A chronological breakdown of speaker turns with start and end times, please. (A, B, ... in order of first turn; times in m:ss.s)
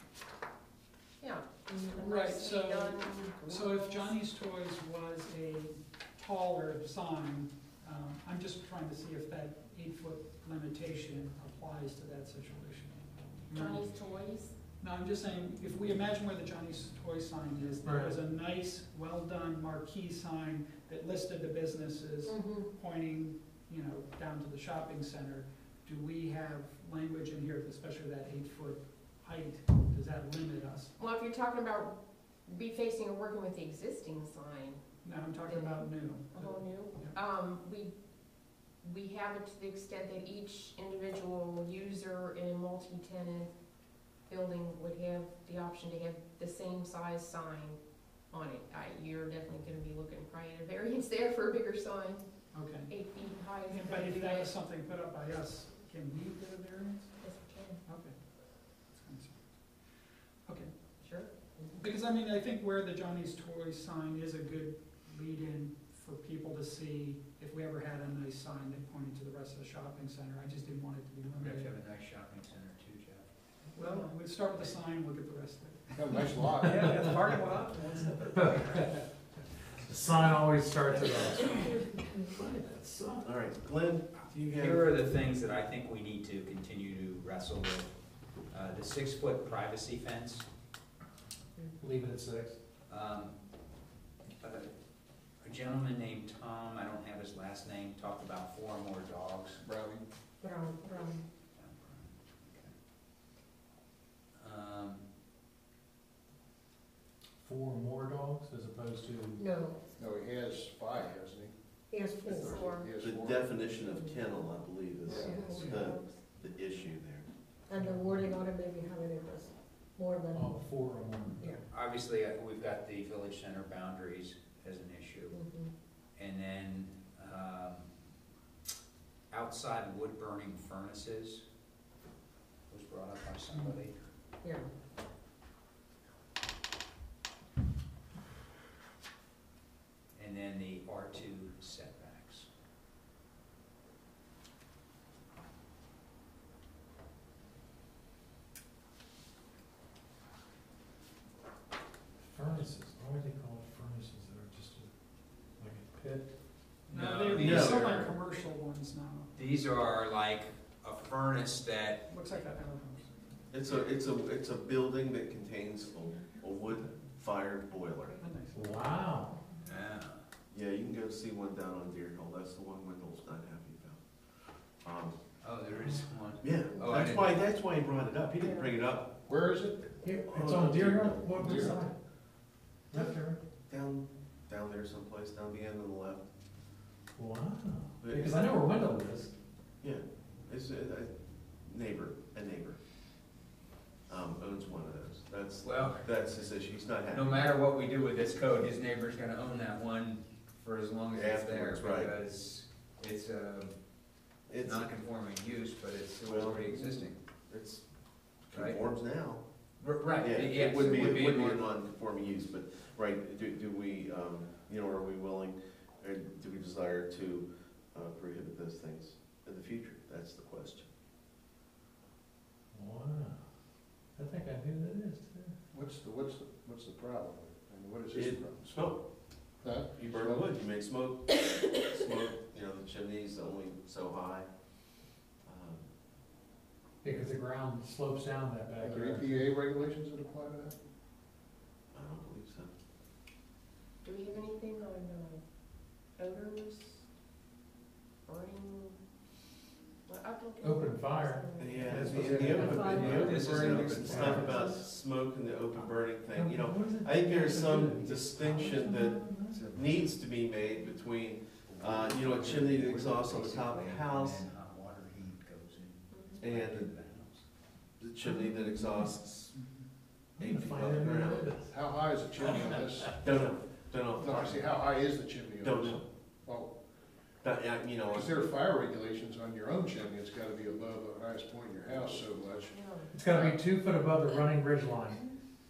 0:01.2-0:04.1 A
0:01.7-0:02.1 B
0:02.0-0:13.9 C
0:13.5-0:14.5 A
0:14.8-0:30.9 C
0:17.8-0:18.2 D
0:22.3-0:22.7 B
0:31.0-0:32.0 A
0:32.5-0:34.8 A
0:35.0-0:37.2 C
0:35.4-0:37.9 A
0:38.8-0:43.5 A
0:44.3-0:47.8 A
0:48.3-0:52.2 A
0:52.5-0:53.0 C
0:52.9-0:54.5 A
0:53.7-0:57.2 C
0:57.2-0:57.8 A
0:57.9-0:58.1 C
0:58.8-0:59.8 C
1:00.5-1:00.7 C
1:01.0-1:01.7 A
1:01.8-1:11.7 C
1:11.3-1:13.3 E
1:13.7-1:18.6 C
1:13.8-1:14.1 A
1:16.0-1:16.9 F
1:18.3-1:19.0 D
1:19.8-1:23.3 D
1:23.2-1:24.8 G
1:24.4-1:27.9 E
1:28.5-1:30.5 E
1:31.8-1:32.6 D
1:32.9-1:33.4 E
1:34.4-1:34.7 E
1:35.4-1:39.6 E
1:39.6-1:40.0 F
1:40.4-1:41.2 B
1:41.6-1:42.7 E
1:44.4-1:45.0 E
1:47.4-1:49.4 D
1:49.4-1:49.8 B
1:50.0-1:51.5 F
1:51.9-1:52.7 B
1:52.2-1:53.5 F
1:52.4-1:52.9 A
1:53.0-1:57.3 G
1:53.7-1:54.3 B
1:55.1-1:55.5 F
1:55.1-1:56.0 B
1:55.3-1:56.1 A
1:57.7-2:00.6 B
1:57.8-1:58.4 D
2:00.3-2:01.5 D
2:01.7-2:05.4 E
2:05.3-2:05.7 B
2:06.2-2:07.9 E
2:09.3-2:11.4 E
2:12.7-2:13.9 E
2:13.5-2:13.8 C
2:14.4-2:14.7 B
2:20.2-2:22.5 E
2:32.2-2:34.9 D
2:35.6-2:36.3 D
2:36.9-2:38.2 E
2:36.9-2:39.3 C
2:37.4-2:37.8 G
2:39.4-2:42.0 E
2:42.1-2:43.4 C
2:43.5-2:48.3 G
2:48.2-2:48.7 C
2:48.5-2:49.4 D
2:49.6-2:50.2 E
2:50.5-2:54.0 G
2:54.7-2:55.2 G
2:55.4-2:57.4 E
2:55.7-2:56.0 D
2:56.4-2:59.1 G
2:56.7-2:57.0 B
2:58.4-2:58.7 B
2:59.2-3:01.8 F
3:00.0-3:01.9 D
3:00.3-3:01.5 G
3:02.9-3:03.4 D
3:03.7-3:06.2 G
3:07.2-3:09.3 D
3:08.0-3:08.5 G
3:09.8-3:12.8 G
3:14.1-3:17.6 G
3:15.6-3:16.2 E
3:17.1-3:27.2 E
3:21.1-3:22.1 G
3:24.5-3:24.9 G
3:26.2-3:29.4 G
3:28.5-3:28.8 E
3:29.8-3:31.8 E
3:30.1-3:40.9 G
3:42.7-3:43.4 D
3:44.2-3:45.5 D
3:45.7-3:48.9 F
3:48.1-3:49.0 G
3:49.6-3:50.5 F
3:50.0-3:54.5 G
3:55.4-3:55.8 G
3:57.0-3:59.5 D
3:58.8-4:00.8 F
4:01.9-4:02.7 G
4:04.0-4:05.4 A
4:06.2-4:07.0 A
4:08.3-4:09.0 A
4:10.1-4:12.1 A
4:10.6-4:13.4 D
4:11.6-4:24.5 G
4:11.9-4:14.7 E
4:12.6-4:13.7 B
4:13.9-4:14.6 D
4:16.4-4:19.6 D
4:19.5-4:20.1 E
4:21.6-4:27.4 E
4:26.1-4:26.4 A
4:26.4-4:26.9 G
4:28.0-4:29.6 G
4:29.5-4:29.8 C
4:30.4-4:31.7 D
4:30.4-4:31.6 G
4:31.6-4:33.2 F
4:33.2-4:34.8 G
4:34.2-4:36.7 F
4:35.6-4:36.0 G
4:37.4-4:38.5 G
4:38.1-4:42.8 F
4:42.7-4:43.2 A
4:43.1-4:45.2 D